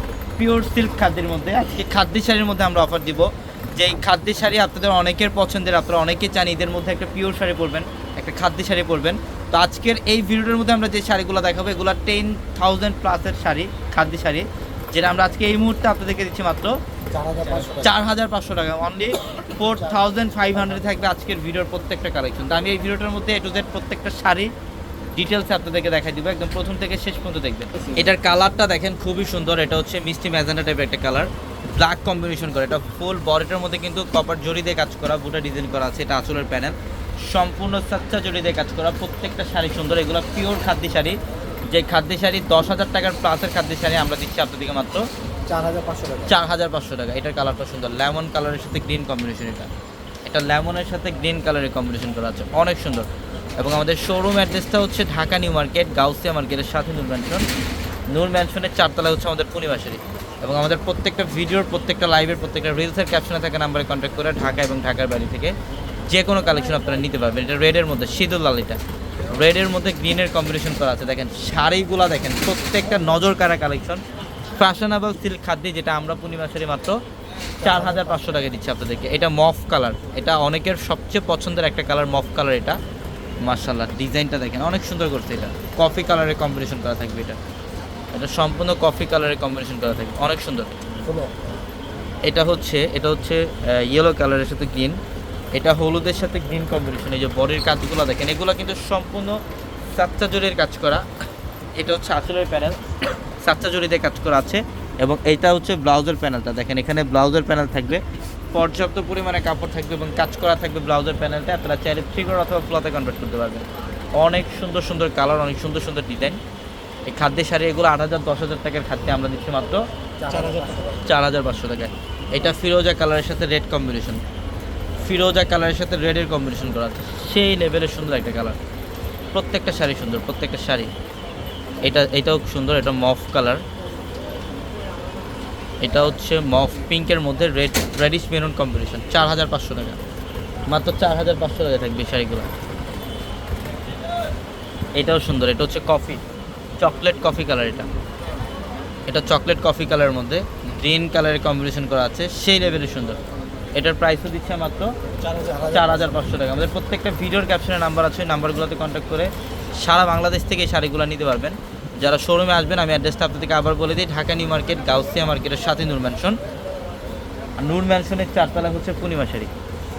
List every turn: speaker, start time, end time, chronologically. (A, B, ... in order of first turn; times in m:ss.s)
0:00.4-0:16.8 A
0:17.1-0:17.9 B
0:17.6-0:24.5 A
0:25.2-0:36.7 A
0:37.3-0:41.2 A
0:41.7-0:45.0 A
0:45.5-0:46.3 B
0:46.3-0:49.7 A
0:50.2-0:53.0 A
0:53.6-0:57.4 A
0:58.1-1:05.5 A
1:06.1-1:14.0 A
1:14.6-1:17.0 A
1:17.6-1:22.8 A
1:23.4-1:27.4 A
1:28.1-1:30.7 A
1:31.0-1:31.3 B
1:32.2-1:35.0 A
1:35.5-1:39.4 A
1:39.9-1:41.0 A
1:41.8-1:53.6 A
1:54.2-1:56.4 A
1:57.1-1:59.8 A
2:00.2-2:01.0 B
2:01.0-2:04.2 A
2:05.0-2:08.6 A
2:09.3-2:10.9 A
2:11.8-2:13.6 A
2:15.8-2:20.0 A
2:20.7-2:22.5 A
2:24.9-2:26.2 A
2:26.8-2:27.9 A
2:29.1-2:33.2 A
2:33.7-2:34.9 A
2:35.2-2:36.0 B
2:35.6-2:39.3 A
2:39.8-2:46.4 A
2:47.6-2:49.5 A